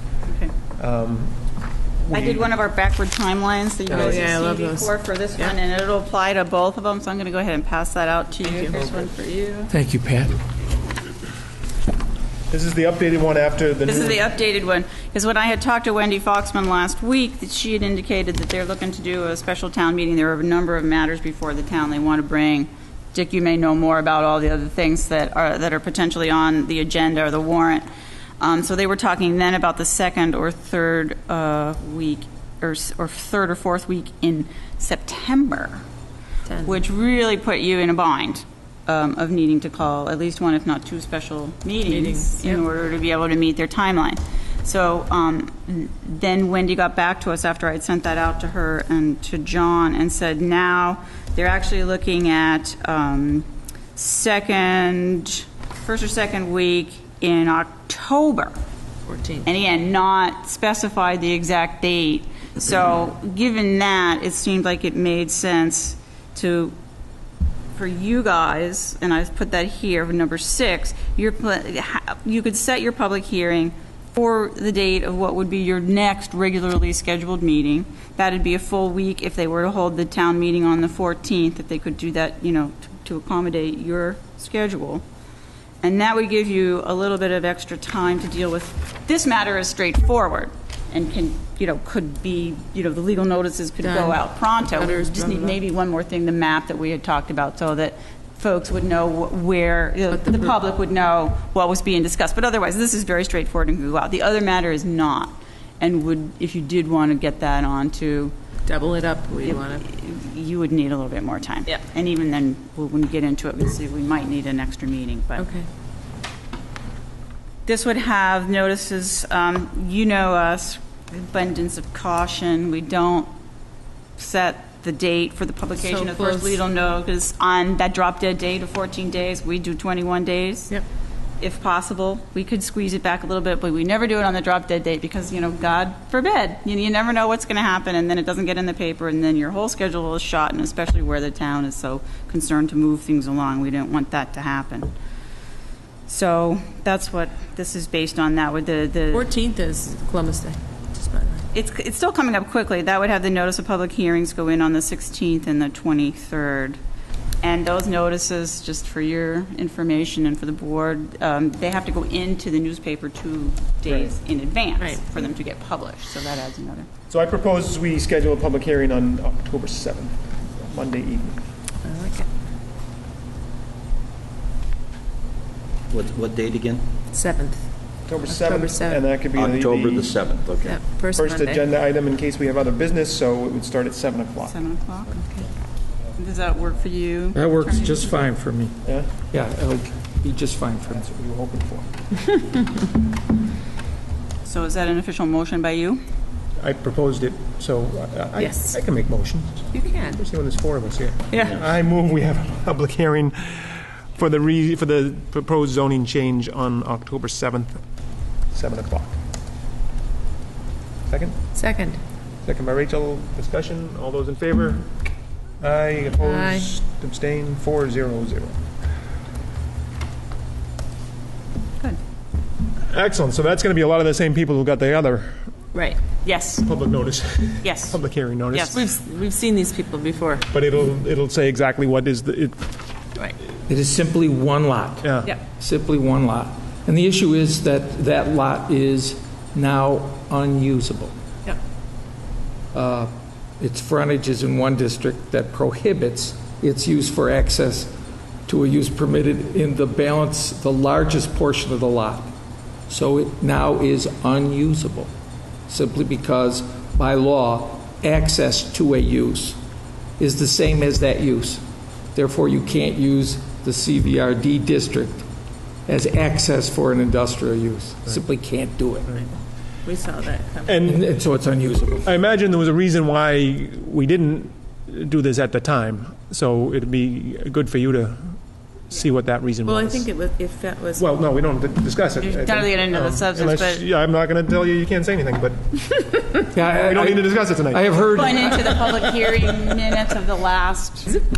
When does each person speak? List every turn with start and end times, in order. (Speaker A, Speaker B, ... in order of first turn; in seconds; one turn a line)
Speaker A: 0.3-0.5
Speaker B: 0.8-1.4
Speaker B: 2.1-2.5
Speaker A: 2.1-9.7
Speaker C: 3.9-5.5
Speaker B: 3.9-4.2
Speaker C: 8.4-8.8
Speaker B: 8.7-9.1
Speaker D: 9.7-10.4
Speaker B: 12.5-14.2
Speaker A: 13.9-27.8
Speaker A: 28.4-35.8
Speaker C: 36.5-36.7
Speaker A: 36.6-58.6
Speaker C: 41.9-42.6
Speaker C: 59.1-59.5
Speaker A: 59.4-66.8
Speaker A: 67.8-85.0
Speaker A: 85.8-108.3
Speaker C: 93.8-95.6
Speaker C: 100.1-100.5
Speaker C: 108.7-109.9
Speaker A: 109.4-115.5
Speaker C: 115.4-115.7
Speaker A: 117.7-123.3
Speaker A: 124.2-130.8
Speaker C: 125.8-126.6
Speaker A: 131.4-144.9
Speaker A: 146.1-149.3
Speaker C: 149.1-151.5
Speaker A: 151.5-156.8
Speaker A: 157.4-166.9
Speaker B: 163.9-164.1
Speaker B: 167.1-171.4
Speaker C: 171.8-172.3
Speaker E: 175.9-176.8
Speaker C: 177.1-177.7
Speaker B: 178.1-180.2
Speaker C: 178.3-179.1
Speaker E: 179.3-180.8
Speaker C: 180.6-181.6
Speaker B: 181.1-184.6
Speaker A: 184.4-185.2
Speaker C: 185.2-185.5
Speaker A: 186.2-188.1
Speaker D: 187.3-188.8
Speaker B: 188.8-189.2
Speaker D: 189.3-191.0
Speaker B: 190.8-191.9
Speaker A: 194.4-196.0
Speaker B: 196.6-207.8
Speaker C: 198.4-198.8
Speaker C: 199.7-200.2
Speaker C: 201.3-201.6
Speaker B: 208.5-209.2
Speaker B: 211.1-211.4
Speaker C: 211.6-212.0
Speaker B: 212.4-214.9
Speaker B: 215.6-218.6
Speaker C: 216.2-216.7
Speaker B: 222.9-225.4
Speaker A: 226.2-226.7
Speaker B: 226.6-228.8
Speaker A: 227.6-228.0
Speaker A: 228.5-228.9
Speaker C: 228.7-230.4
Speaker B: 230.5-232.6
Speaker D: 233.7-241.2
Speaker B: 235.0-235.3
Speaker D: 242.7-247.9
Speaker D: 248.5-252.3
Speaker D: 252.9-255.1
Speaker D: 255.7-259.6
Speaker D: 260.2-261.6
Speaker D: 262.1-265.3
Speaker D: 265.9-269.2
Speaker C: 269.8-270.8
Speaker B: 270.7-271.0
Speaker D: 270.8-272.0
Speaker B: 272.0-278.4
Speaker B: 278.9-280.1
Speaker C: 279.6-281.1
Speaker B: 281.0-285.8
Speaker A: 282.2-283.8
Speaker B: 286.4-288.0
Speaker D: 286.5-288.8
Speaker A: 288.1-291.2